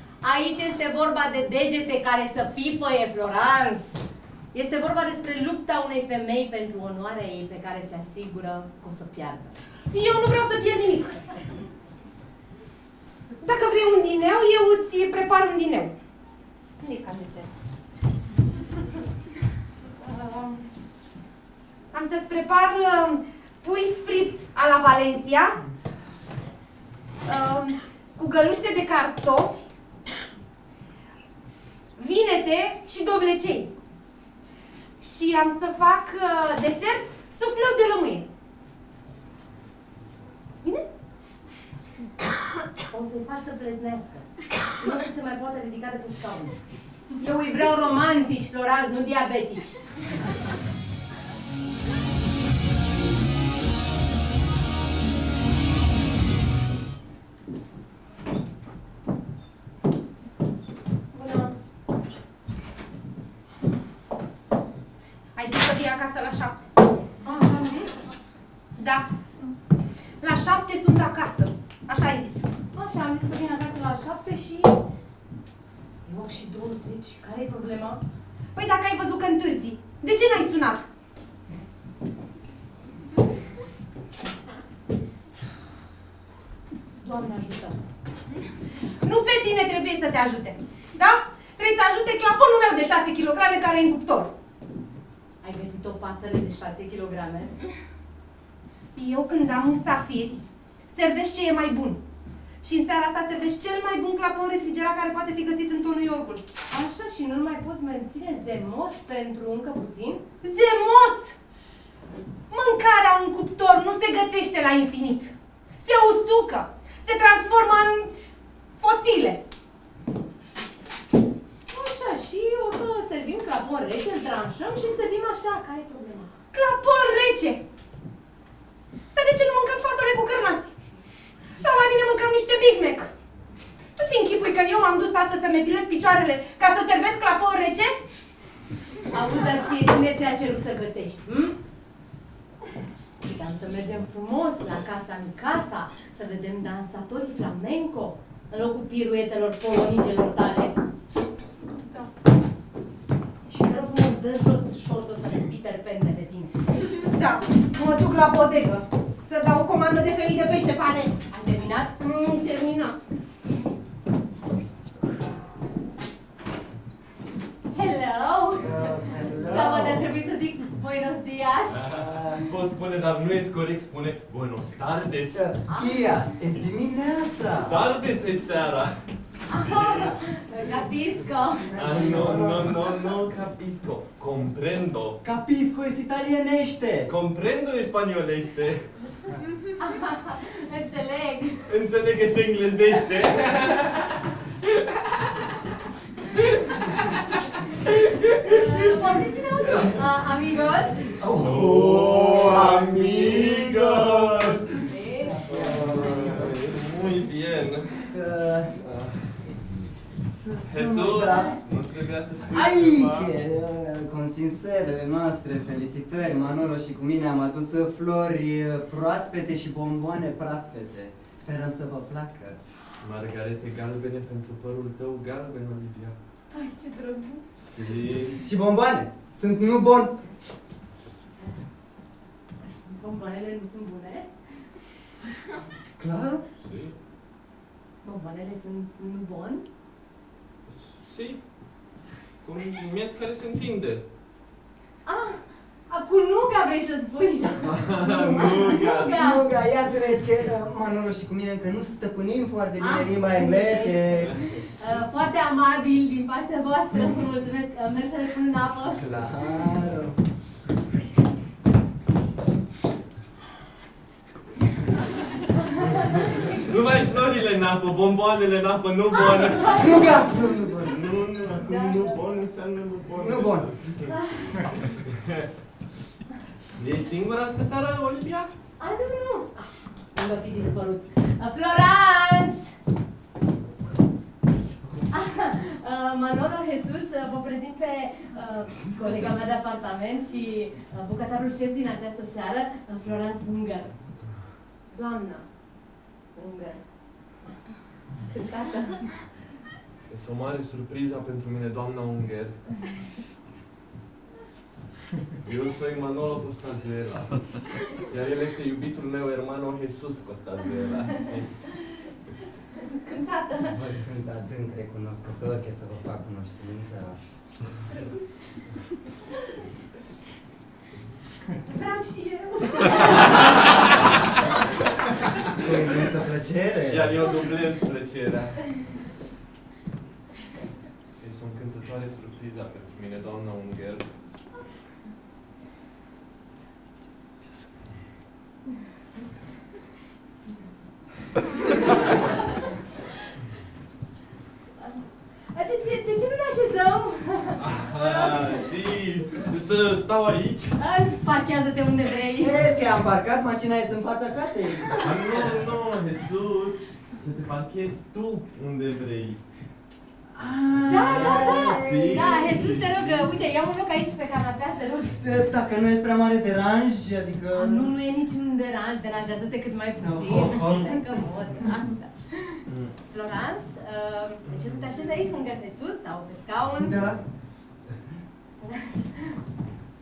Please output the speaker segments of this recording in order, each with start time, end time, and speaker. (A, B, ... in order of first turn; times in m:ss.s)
0:00.2-0:04.0 A
0:04.5-0:09.6 A
0:09.9-0:11.2 B
0:13.4-0:16.0 B
0:16.8-0:17.5 B
0:20.0-0:20.6 B
0:21.9-0:25.6 B
0:27.2-0:29.6 B
0:32.0-0:33.7 B
0:35.0-0:38.3 B
0:42.9-0:46.6 A
0:47.2-0:49.7 A
1:01.1-1:01.5 A
1:05.4-1:06.7 B
1:07.2-1:08.0 A
1:08.8-1:09.1 B
1:10.2-1:12.5 B
1:12.7-1:14.8 A
1:16.1-1:18.0 A
1:18.6-1:20.9 B
1:27.0-1:27.8 A
1:29.0-1:34.3 B
1:35.4-1:37.5 A
1:39.0-1:42.0 B
1:42.6-1:46.5 B
1:46.7-1:50.3 A
1:50.4-1:51.4 B
1:52.5-1:58.1 B
1:58.8-1:59.4 B
2:01.7-2:06.3 A
2:06.5-2:07.6 B
2:09.2-2:10.7 B
2:11.6-2:13.1 B
2:14.0-2:18.0 B
2:19.1-2:21.6 A
2:23.2-2:30.7 A
2:31.7-2:32.1 B
2:33.5-2:36.5 A
2:37.0-2:41.2 B
2:41.3-2:42.0 A
2:42.0-2:43.0 B
2:47.7-2:51.9 A
2:48.5-2:50.1 C
2:49.4-2:50.0 D
2:51.7-2:55.5 D
2:51.9-2:52.5 C
2:55.3-2:57.8 C
2:55.7-2:56.1 A
2:57.6-2:59.0 D
2:59.5-3:01.8 A
2:59.6-3:00.2 D
3:01.7-3:05.2 D
3:01.7-3:03.1 C
3:05.2-3:07.1 C
3:07.1-3:08.8 D
3:09.8-3:11.6 A
3:11.7-3:14.0 D
3:17.9-3:20.0 D
3:18.4-3:21.2 A
3:21.2-3:24.8 C
3:21.3-3:24.8 D
3:24.8-3:25.4 A
3:25.3-3:26.6 C
3:25.4-3:28.0 D
3:28.0-3:28.8 C
3:28.8-3:29.3 D
3:30.3-3:31.6 C
3:30.7-3:33.4 D
3:32.4-3:42.6 C
3:43.0-3:46.2 D
3:46.5-3:47.4 A
3:47.7-3:48.4 D
3:47.8-3:50.2 C
3:52.8-3:54.3 A
3:56.0-3:56.5 C
3:56.6-3:57.0 D
3:58.0-3:59.6 A
4:00.7-4:04.1 D
4:05.1-4:09.4 A
4:07.6-4:09.2 D
4:07.7-4:14.4 C
4:12.8-4:19.0 A
4:19.0-4:20.2 C
4:26.0-4:30.3 D
4:29.3-4:30.2 A
4:29.7-4:31.2 C
4:30.8-4:34.1 D
4:31.6-4:32.3 A
4:33.2-4:33.7 C
4:34.1-4:34.7 A
4:35.1-4:35.5 D
4:36.8-4:38.5 D
4:38.8-4:42.8 A
4:45.1-4:53.9 A
4:55.0-4:55.4 B
4:56.4-4:56.7 B
4:58.3-4:58.9 A
5:00.1-5:02.6 D
5:05.4-5:11.6 D
5:13.1-5:13.7 A
5:13.7-5:17.2 C
5:21.7-5:23.2 A
5:25.6-5:27.3 C
5:26.9-5:28.6 D
5:31.2-5:34.1 D
5:44.8-5:48.7 A
5:47.6-5:50.8 D
5:50.8-5:52.6 A
5:52.4-5:55.1 C
5:55.0-5:59.4 D
6:00.3-6:02.4 C
6:00.7-6:03.4 D
6:00.9-6:05.2 A
6:05.2-6:07.9 C
6:07.5-6:12.6 A
6:10.0-6:10.6 C
6:10.3-6:11.0 D
6:12.7-6:12.9 D
6:13.1-6:17.1 A
6:16.8-6:17.2 C
6:18.6-6:19.4 A